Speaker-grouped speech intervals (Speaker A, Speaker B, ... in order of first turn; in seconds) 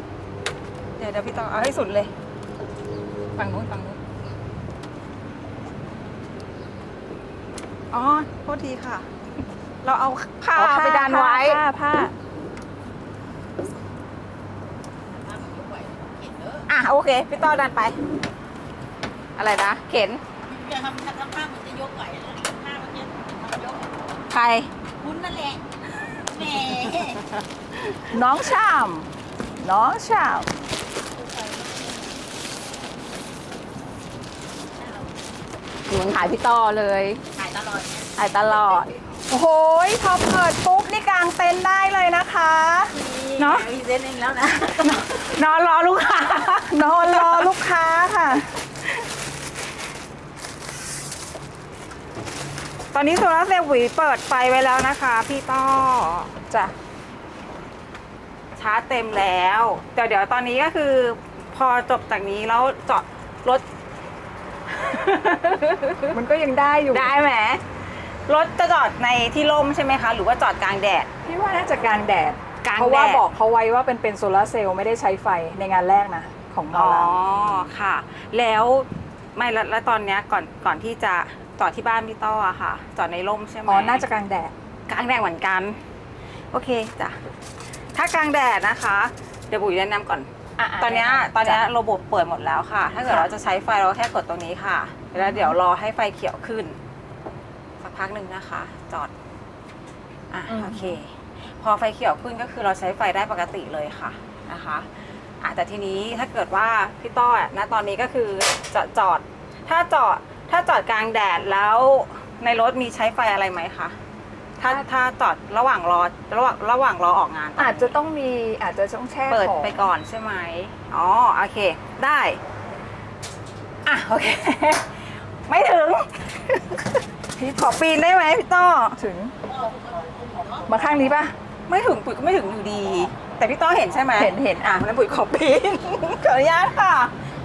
Speaker A: 1.0-2.1, 3.4-4.0, 7.9-9.1, 9.8-11.6, 16.6-18.0, 19.4-20.2, 24.3-25.3, 26.1-28.1, 35.9-39.0, 43.2-47.5, 52.9-56.4, 58.6-63.6, 64.7-66.2, 66.9-67.6, 68.3-71.1, 72.6-73.2, 76.7-84.1, 84.9-85.8, 86.5-87.2, 87.9-90.3, 90.8-96.8, 97.8-99.1, 100.3-104.9, 105.4-114.0, 114.6-117.9, 119.3-122.4, 123.8-129.0, 131.7-137.1
Speaker B: 10.5-12.1, 28.1-29.1, 29.6-30.5, 39.3-43.7, 44.7-45.0, 46.5-48.5, 56.5-56.7, 66.1-67.1, 71.2-77.7, 83.7-84.5, 90.6-91.6, 93.0-93.3, 95.2-95.6, 100.5-101.0, 117.6-119.8, 129.0-129.3, 130.7-131.3, 134.2-134.8
Speaker C: 15.3-16.4, 20.6-23.8, 25.2-25.6